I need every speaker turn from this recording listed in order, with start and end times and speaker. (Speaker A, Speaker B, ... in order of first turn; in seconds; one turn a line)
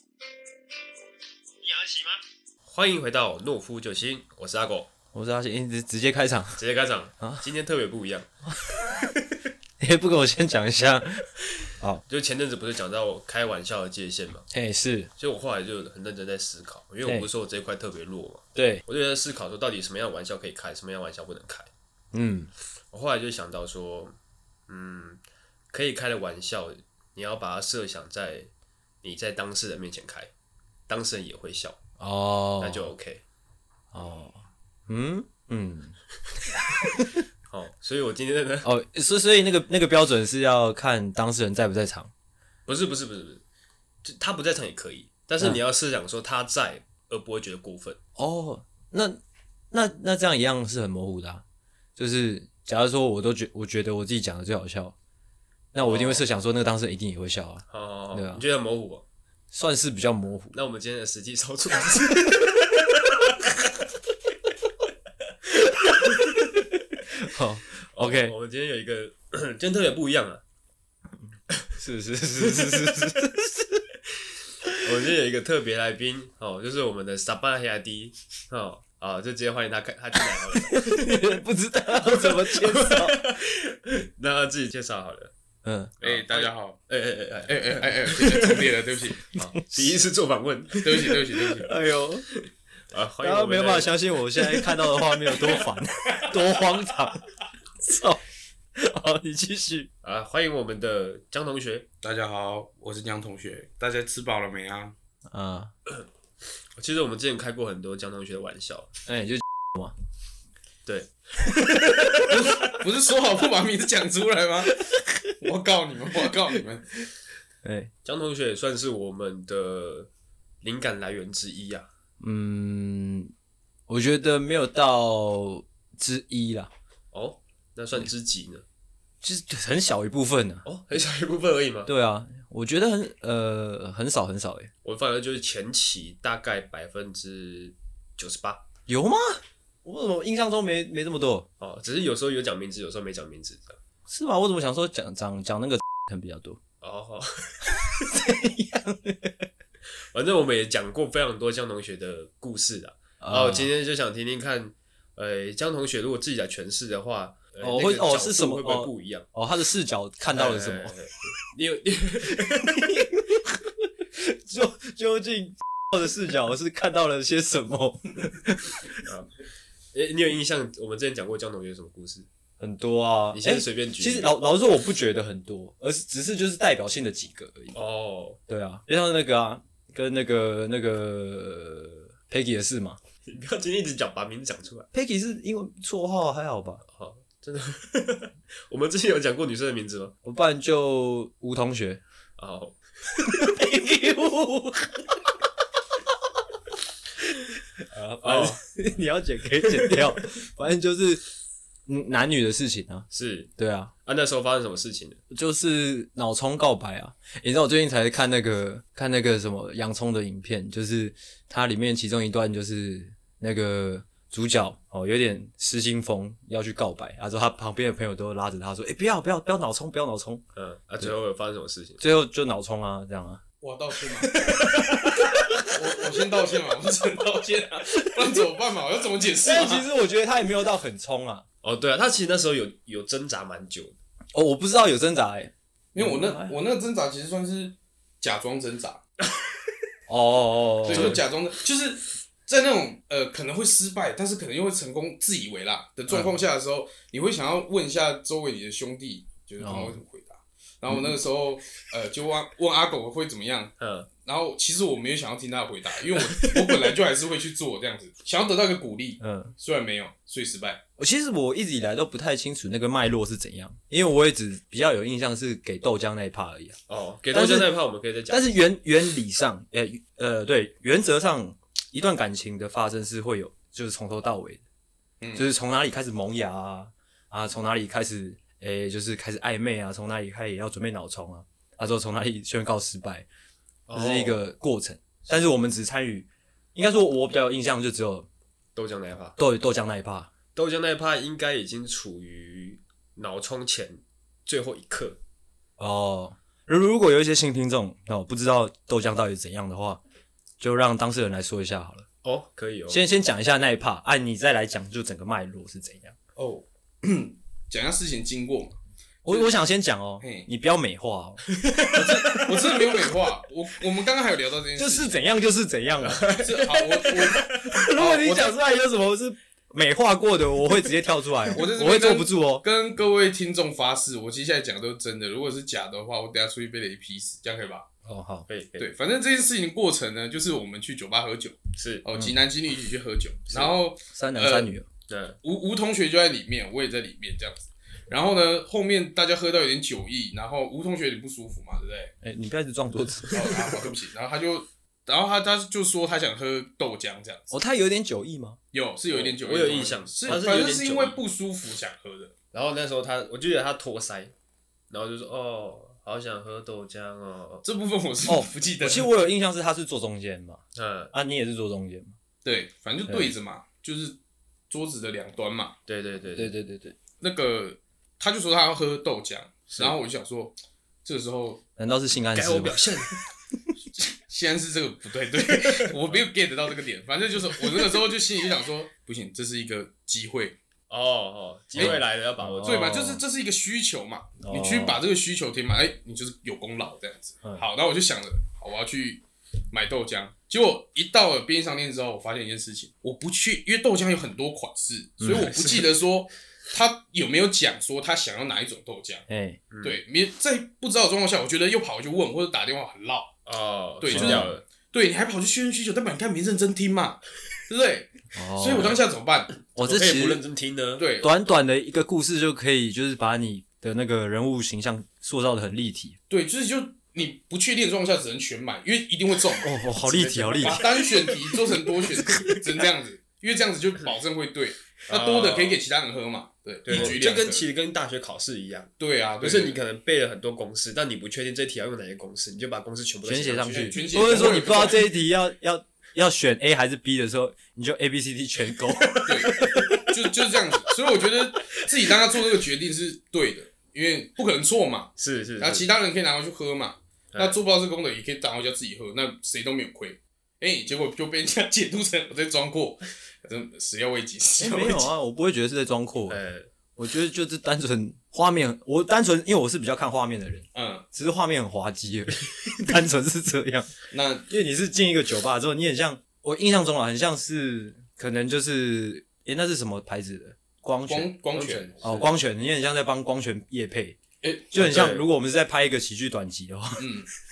Speaker A: 2.7-4.9
Speaker B: 5.1-6.6
Speaker A: 6.6-8.3
Speaker B: 8.7-8.9
Speaker B: 9.8-12.0
Speaker A: 12.1-14.5
Speaker B: 14.5-15.1
Speaker A: 15.2-21.7
Speaker B: 18.6-18.8
Speaker B: 22.1-22.5
Speaker A: 22.9-24.2
Speaker A: 24.7-25.2
Speaker A: 25.7-28.5
Speaker A: 29.0-30.3
Speaker A: 30.9-31.8
Speaker B: 32.0-32.9
Speaker A: 32.6-33.2
Speaker B: 33.9-36.0
Speaker B: 36.6-37.2
Speaker A: 37.5-38.7
Speaker B: 38.6-42.1
Speaker A: 42.7-43.4
Speaker A: 44.0-48.0
Speaker B: 48.2-49.2
Speaker B: 49.7-51.4
Speaker B: 52.0-55.0
Speaker B: 55.7-58.4
Speaker A: 55.8-56.2
Speaker A: 57.7-59.1
Speaker B: 59.5-60.5
Speaker A: 60.5-63.2
Speaker B: 65.5-68.3
Speaker A: 67.9-70.4
Speaker B: 71.8-73.9
Speaker A: 72.4-73.2
Speaker A: 74.8-81.3
Speaker B: 80.7-83.2
Speaker A: 82.0-85.3
Speaker B: 85.6-86.0
Speaker C: 86.0-86.8
Speaker A: 86.0-88.8
Speaker C: 87.5-89.3
Speaker A: 89.3-91.7
Speaker B: 89.4-89.9
Speaker C: 90.8-91.7
Speaker B: 91.6-92.3
Speaker A: 92.3-95.6
Speaker B: 93.2-97.2
Speaker B: 97.8-98.2
Speaker B: 98.8-99.9
Speaker A: 100.0-101.9
Speaker C: 102.0-105.0
Speaker B: 105.3-105.7
Speaker A: 106.8-108.9
Speaker B: 109.1-110.0
Speaker A: 110.9-112.3
Speaker C: 112.3-114.8
Speaker C: 115.4-116.8
Speaker B: 117.6-117.9
Speaker A: 118.0-120.1
Speaker A: 120.6-121.9
Speaker B: 122.2-123.3
Speaker B: 123.9-126.7
Speaker A: 127.1-128.7
Speaker B: 129.2-130.7
Speaker A: 130.7-131.9
Speaker B: 131.9-134.7
Speaker A: 134.8-138.7
Speaker B: 138.9-141.5
Speaker A: 141.6-143.8
Speaker B: 144.1-146.6
Speaker A: 146.8-148.1
Speaker B: 147.7-149.5
Speaker A: 150.1-159.3
Speaker B: 153.2-153.7
Speaker B: 157.6-161.0
Speaker A: 160.3-163.1
Speaker B: 162.3-169.0
Speaker A: 169.0-169.3
Speaker A: 169.9-172.3
Speaker B: 172.6-177.8
Speaker A: 173.3-174.3
Speaker A: 177.8-178.4
Speaker B: 178.5-183.0
Speaker A: 183.3-184.9
Speaker B: 184.9-186.8
Speaker A: 186.9-190.2
Speaker B: 190.2-192.0
Speaker A: 192.4-193.3
Speaker B: 193.2-195.2
Speaker B: 197.8-201.2
Speaker A: 198.2-198.6
Speaker A: 199.7-200.0
Speaker B: 201.9-203.1
Speaker A: 203.1-203.5
Speaker B: 203.6-203.9
Speaker A: 204.1-205.2
Speaker B: 205.3-220.4
Speaker A: 220.6-222.0
Speaker B: 222.0-223.4
Speaker C: 223.6-224.7
Speaker A: 224.3-225.6
Speaker C: 225.7-229.9
Speaker B: 229.4-231.5
Speaker A: 231.6-234.0
Speaker B: 234.3-236.6
Speaker C: 235.9-239.0
Speaker B: 240.1-241.2
Speaker C: 240.9-253.7
Speaker A: 240.9-241.2
Speaker B: 246.1-246.3
Speaker B: 249.6-250.0
Speaker A: 253.8-254.1
Speaker C: 254.2-260.8
Speaker A: 256.3-256.9
Speaker B: 259.2-259.5
Speaker B: 261.0-266.8
Speaker A: 266.9-268.5
Speaker B: 267.3-267.7
Speaker B: 268.3-274.6
Speaker C: 275.2-275.5
Speaker B: 275.4-283.3
Speaker A: 283.9-284.5
Speaker B: 283.9-288.3
Speaker A: 288.8-289.4
Speaker B: 289.4-290.3
Speaker A: 290.6-295.2
Speaker B: 295.8-300.0
Speaker B: 300.6-302.1
Speaker A: 302.2-303.0
Speaker B: 302.9-306.2
Speaker C: 306.4-308.8
Speaker B: 309.2-311.5
Speaker C: 309.3-309.6
Speaker C: 310.2-310.5
Speaker A: 311.5-312.6
Speaker C: 311.9-315.1
Speaker B: 314.8-316.3
Speaker A: 316.0-317.9
Speaker C: 316.3-318.5
Speaker B: 317.3-322.6
Speaker C: 321.5-327.9
Speaker B: 328.1-328.5
Speaker A: 328.5-328.9
Speaker C: 328.8-334.7
Speaker A: 331.8-332.1
Speaker A: 333.5-333.8
Speaker B: 334.1-334.9
Speaker A: 335.1-335.4
Speaker C: 335.4-342.1
Speaker B: 342.2-343.7
Speaker C: 343.3-347.6
Speaker B: 347.5-348.6
Speaker C: 348.7-352.3
Speaker A: 349.1-351.2
Speaker B: 350.3-350.8
Speaker A: 352.5-354.3
Speaker A: 354.9-357.6
Speaker C: 357.6-359.1
Speaker B: 358.3-360.6
Speaker A: 360.8-361.1
Speaker B: 361.1-362.2
Speaker C: 362.4-364.2
Speaker B: 363.1-363.3
Speaker C: 364.7-365.8
Speaker A: 365.9-366.5
Speaker B: 366.4-367.0
Speaker C: 367.2-371.6
Speaker A: 369.7-370.0
Speaker B: 371.8-372.8
Speaker A: 372.3-373.1
Speaker C: 374.0-380.6
Speaker A: 380.9-382.8
Speaker C: 381.8-382.0
Speaker B: 381.8-383.2
Speaker C: 382.6-399.2
Speaker B: 384.4-385.0
Speaker B: 395.2-395.5
Speaker A: 395.3-395.9
Speaker B: 399.3-399.6
Speaker A: 399.7-400.0
Speaker C: 399.8-403.4
Speaker A: 403.5-404.6
Speaker C: 404.0-409.5
Speaker B: 404.1-404.6
Speaker B: 408.3-409.0
Speaker A: 409.7-411.0
Speaker B: 409.8-410.4
Speaker C: 411.0-411.3
Speaker B: 411.2-416.2
Speaker C: 416.3-419.8
Speaker B: 419.6-420.8
Speaker A: 420.0-422.7
Speaker C: 420.6-427.7
Speaker A: 425.1-425.8
Speaker A: 426.9-434.1
Speaker B: 426.9-427.2
Speaker C: 429.0-429.8
Speaker B: 433.2-439.9
Speaker C: 433.7-435.1
Speaker A: 439.0-440.0
Speaker C: 439.2-455.1
Speaker A: 445.2-445.9
Speaker A: 447.3-447.6
Speaker B: 454.6-456.4
Speaker A: 456.3-456.7
Speaker B: 457.0-463.9
Speaker C: 460.7-461.1
Speaker C: 464.1-464.5
Speaker B: 464.5-471.3
Speaker C: 471.1-472.2
Speaker A: 471.5-472.3
Speaker B: 472.0-474.2
Speaker C: 474.4-474.7
Speaker B: 474.7-477.0
Speaker A: 474.8-475.2
Speaker C: 477.0-477.3